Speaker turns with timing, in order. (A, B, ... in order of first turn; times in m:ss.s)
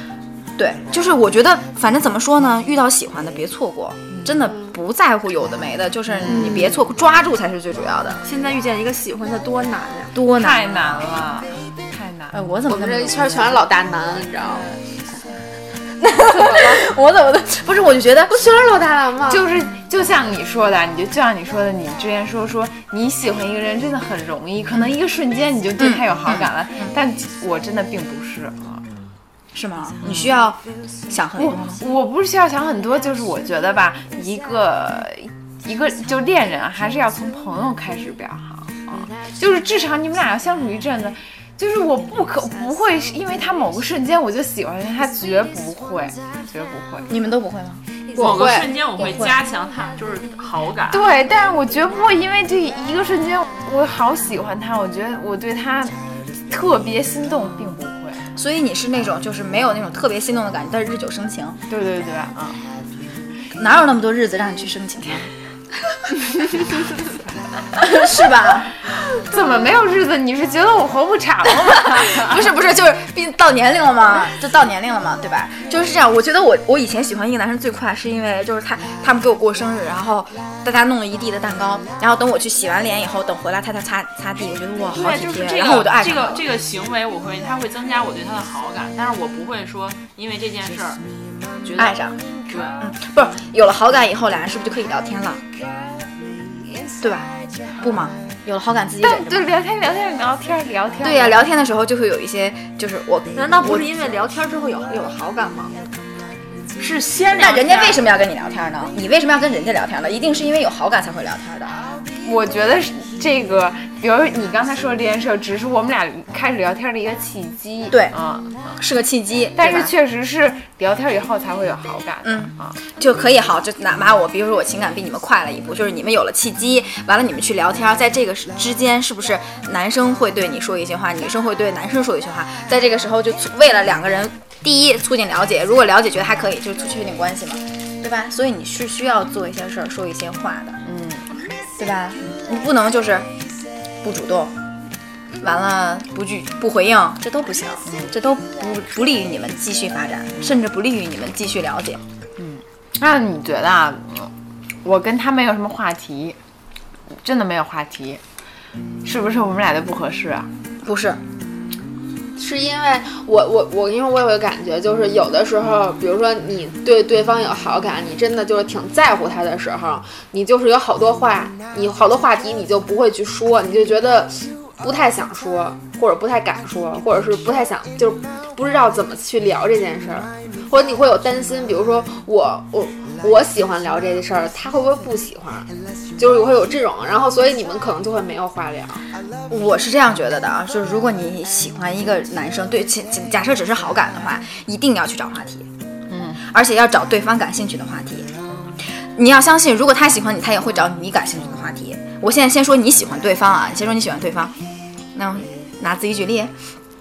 0:00.6-0:08.2 A
0:04.4-0:04.7 B
0:08.2-0:10.1 C
0:10.1-0:11.3 A
0:10.4-0:12.4 D
0:12.3-0:13.6 A
0:12.7-0:14.7 B
0:16.0-0:18.4 A
0:16.2-0:16.8 B
0:18.3-0:19.5 B
0:19.3-0:28.8 D
0:25.8-0:26.9 A
0:29.5-0:31.8 A
0:31.4-0:47.1 D
0:47.1-0:47.8 A
0:48.1-0:48.7 B
0:48.2-0:51.1 E
0:49.0-0:49.3 A
0:50.9-0:56.0 D
0:56.5-0:58.2 D
0:58.3-1:01.6 A
1:01.7-1:02.6 D
1:03.5-1:05.3 A
1:07.8-1:08.7 A
1:09.1-1:12.4 D
1:11.4-1:26.4 A
1:24.9-1:31.0 E
1:31.6-1:32.8 E
1:31.8-1:32.2 A
1:32.8-1:35.4 A
1:37.0-1:39.5 A
1:39.0-1:41.4 D
1:41.0-1:43.9 A
1:43.3-1:45.8 C
1:46.8-1:48.0 C
1:47.3-1:51.9 A
1:52.2-1:58.8 D
1:57.9-1:58.2 A
1:58.8-1:59.9 A
1:59.6-2:02.8 D
2:02.2-2:20.8 A
2:20.8-2:21.3 D
2:21.8-2:23.3 A
2:24.0-2:24.6 A
2:25.4-2:32.0 A
2:27.9-2:28.1 D
2:32.4-2:34.3 D
2:34.8-2:36.4 D
2:37.2-2:38.2 D
2:39.0-2:40.5 D
2:40.8-2:41.2 A
2:42.4-3:09.0 B
3:09.5-3:15.7 A
3:16.1-3:16.4 D
3:16.4-3:18.3 A
3:18.9-3:24.5 A
3:25.1-3:26.5 A